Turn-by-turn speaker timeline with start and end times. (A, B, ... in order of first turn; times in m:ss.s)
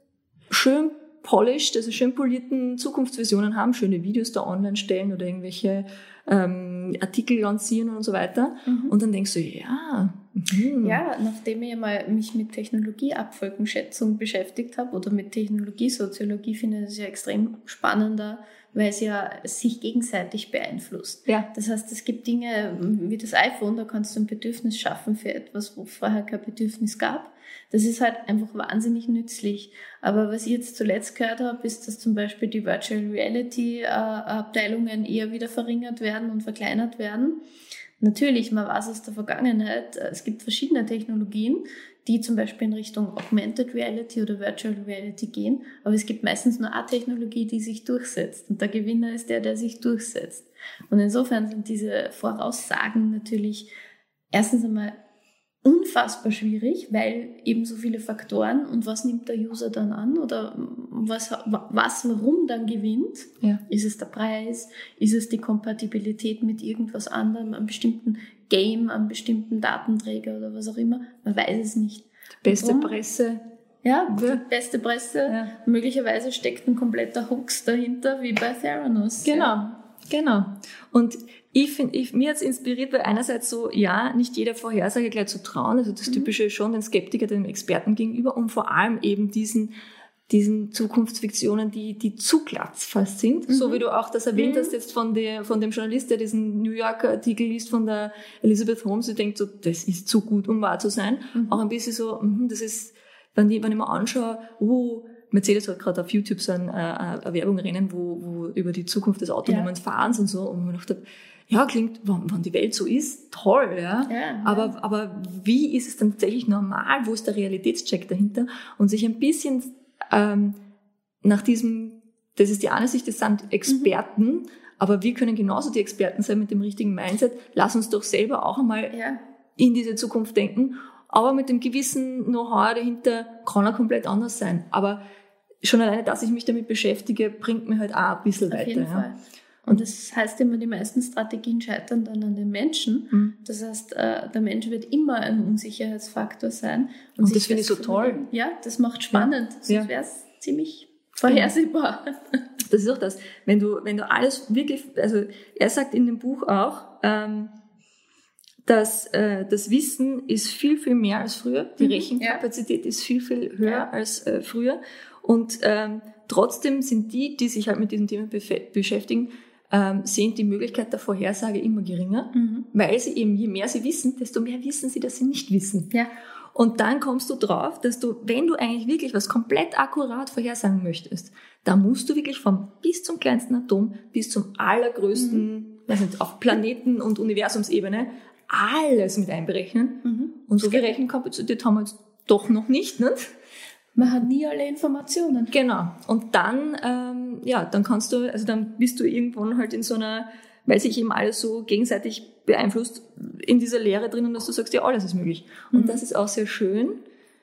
0:00.5-0:11.0 A
0:08.6-0:08.9 B
0:10.8-0:37.4 B
0:38.0-0:53.7 B
0:54.3-0:55.0 B
0:55.6-1:12.9 B
1:12.4-1:13.4 A
1:13.8-1:19.6 B
1:14.1-1:14.4 A
1:15.3-1:15.5 A
1:19.2-1:29.7 A
1:30.3-2:00.6 A
1:33.5-1:33.8 B
1:34.3-1:34.7 B
1:41.3-1:41.6 B
1:49.4-1:49.7 B
1:54.1-1:54.7 B
2:01.2-2:08.9 A
2:03.7-2:03.9 B
2:08.9-2:09.2 B
2:09.6-2:15.0 A
2:15.6-2:19.0 A
2:18.5-2:32.4 B
2:27.2-2:28.2 A
2:29.2-2:29.9 A
2:32.7-2:37.5 A
2:38.6-2:55.9 A
2:41.8-2:42.4 B
2:43.6-2:43.9 B
2:52.3-2:52.7 B
2:56.5-3:13.3 A
3:05.1-3:05.4 B
3:10.0-3:11.0 B
3:14.0-3:15.5 B
3:15.5-3:27.0 A
3:25.7-3:26.0 B